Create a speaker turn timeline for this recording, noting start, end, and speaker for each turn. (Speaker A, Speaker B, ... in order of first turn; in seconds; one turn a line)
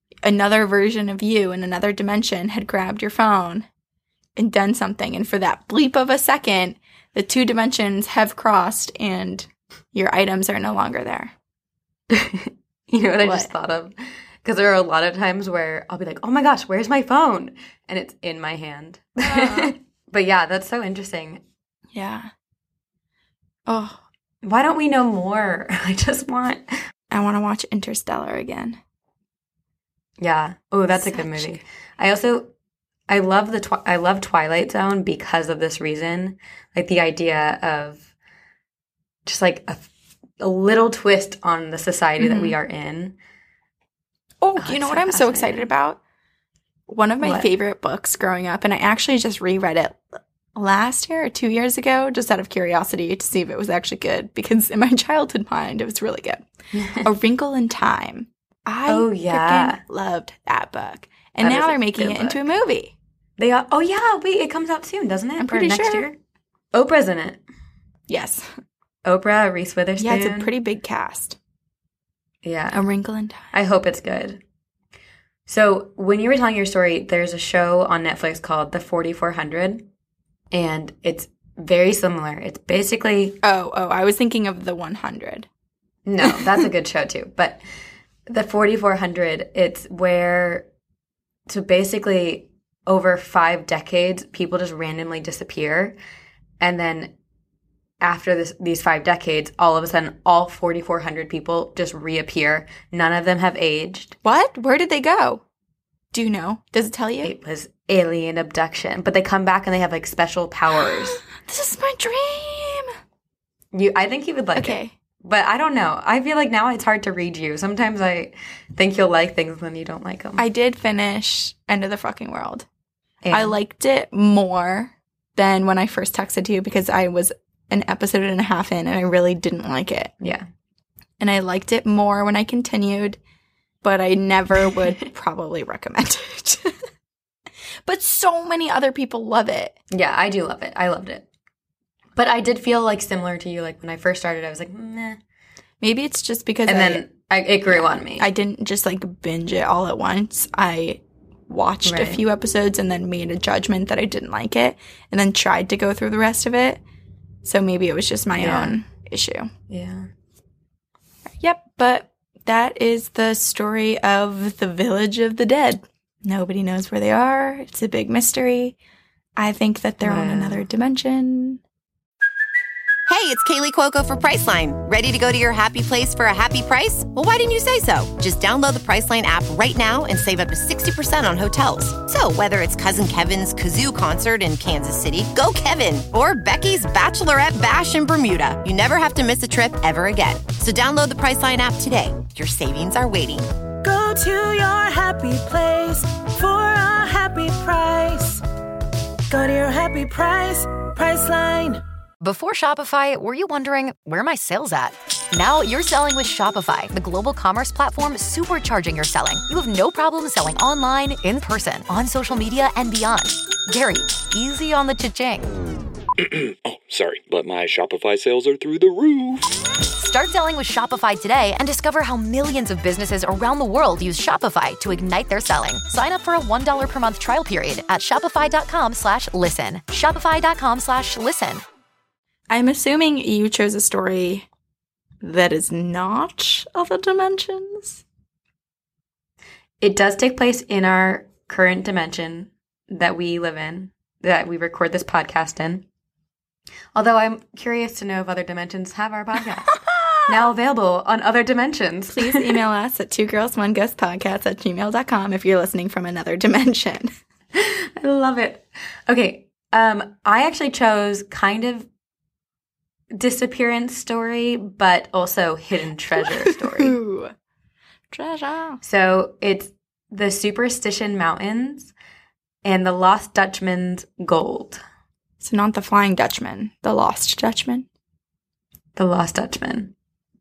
Speaker A: 0.2-3.7
Speaker A: 4.3-11.3
Speaker B: 12.1-21.4
Speaker A: 13.2-13.5
Speaker A: 19.2-19.8
Speaker A: 21.9-22.3
Speaker A: 23.7-24.0
Speaker B: 24.4-26.7
Speaker A: 27.1-28.8
Speaker B: 30.2-32.5
Speaker A: 30.9-31.6
Speaker B: 33.1-38.0
Speaker B: 39.2-39.9
Speaker B: 40.4-43.1
Speaker A: 42.2-42.5
Speaker A: 44.4-46.0
Speaker B: 44.6-45.7
Speaker A: 46.9-50.0
Speaker B: 47.2-47.5
Speaker A: 50.5-56.5
Speaker B: 56.8-57.0
Speaker A: 57.0-62.9
Speaker B: 58.9-59.8
Speaker B: 61.4-62.5
Speaker B: 63.4-66.2
Speaker A: 65.4-66.1
Speaker B: 66.7-67.4
Speaker A: 68.1-68.5
Speaker B: 69.0-70.5
Speaker A: 70.0-71.4
Speaker B: 72.4-72.8
Speaker A: 72.7-73.5
Speaker B: 73.5-74.4
Speaker B: 75.5-79.8
Speaker B: 80.5-83.3
Speaker A: 83.4-85.5
Speaker B: 86.0-87.6
Speaker B: 88.3-90.7
Speaker B: 91.5-96.0
Speaker B: 96.6-97.1
Speaker B: 98.0-104.1
Speaker A: 104.2-105.4
Speaker A: 106.1-107.3
Speaker B: 107.2-111.2
Speaker A: 110.8-112.9
Speaker B: 113.7-120.4
Speaker A: 114.5-114.9
Speaker A: 120.4-122.7
Speaker B: 123.2-123.5
Speaker A: 123.3-130.1
Speaker B: 130.2-130.5
Speaker A: 131.2-133.2
Speaker A: 133.8-136.8
Speaker A: 137.8-139.8
Speaker B: 139.9-141.2
Speaker B: 142.2-145.2
Speaker A: 145.8-147.0
Speaker B: 146.7-148.3
Speaker A: 147.7-156.8
Speaker B: 151.8-152.2
Speaker A: 157.4-159.5
Speaker B: 158.3-158.8
Speaker B: 159.7-160.1
Speaker A: 161.3-168.8
Speaker A: 169.4-171.6
Speaker B: 170.0-170.6
Speaker C: 173.1-193.4
Speaker D: 193.8-198.4
Speaker D: 199.3-201.8
Speaker E: 202.2-215.4
Speaker F: 216.2-219.6
Speaker E: 219.9-231.6
Speaker A: 232.5-234.5
Speaker A: 235.2-238.0
Speaker B: 239.8-245.8
Speaker B: 246.9-252.6
Speaker A: 249.8-250.2
Speaker A: 252.1-257.1
Speaker B: 257.5-261.9
Speaker B: 263.1-267.0
Speaker A: 266.2-267.3
Speaker A: 268.1-268.8
Speaker B: 268.8-271.9
Speaker B: 272.6-274.8
Speaker A: 275.4-277.9
Speaker B: 278.9-279.9